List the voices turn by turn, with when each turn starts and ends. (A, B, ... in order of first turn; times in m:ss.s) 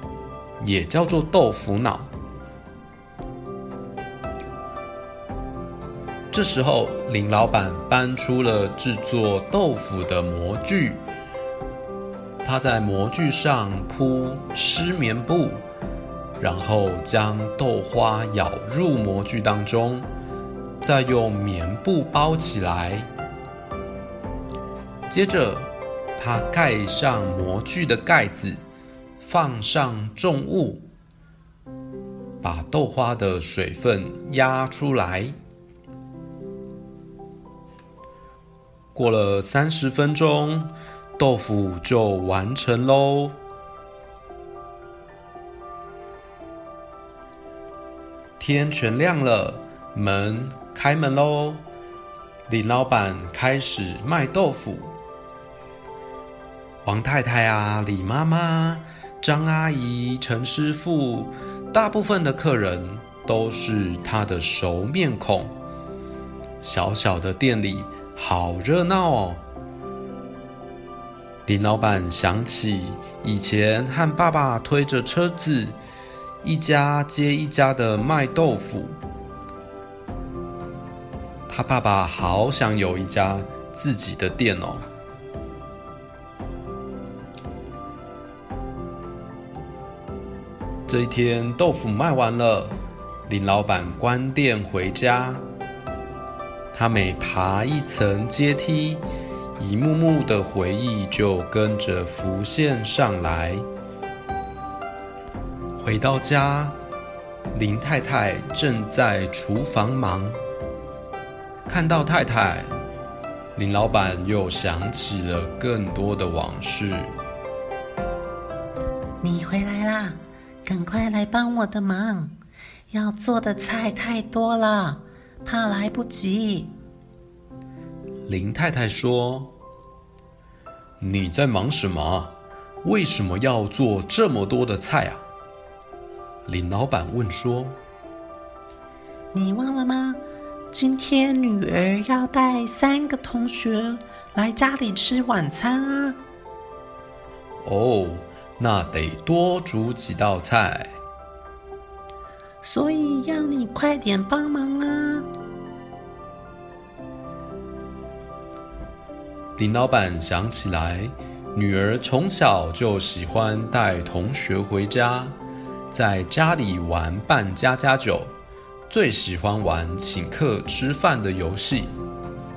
0:00.6-0:02.1 A
0:06.3-0:11.0 A
0:12.4-0:15.7 A
0:16.4-0:20.1 A
0:20.8-0:23.1 A
0:25.1-0:28.6 A
0:29.2-0:30.8 A
0:32.4-0:35.3 A
0:38.9-0:43.4 A
0:48.4-0:51.6 A
0:52.5-0:54.9 A
0:56.8-1:05.5 A
1:06.6-1:09.4 A
1:11.4-1:15.8 A
1:16.4-1:19.0 A
1:21.5-1:24.8 A
1:30.9-1:32.8 A
1:33.3-1:35.4 A
1:36.7-1:39.0 A
1:39.6-1:43.6 A
1:45.8-1:46.7 A
1:47.5-1:50.4 A
1:51.6-1:52.7 A
1:53.5-1:57.1 A
1:59.2-2:02.3 B
2:02.9-2:06.7 B
2:08.2-2:09.5 A
2:11.0-2:15.2 A
2:16.4-2:17.8 A
2:19.3-2:26.2 B
2:27.6-2:31.0 A
2:32.6-2:35.3 B
2:39.6-2:45.4 A
2:45.9-2:48.3 A
2:48.9-2:51.9 A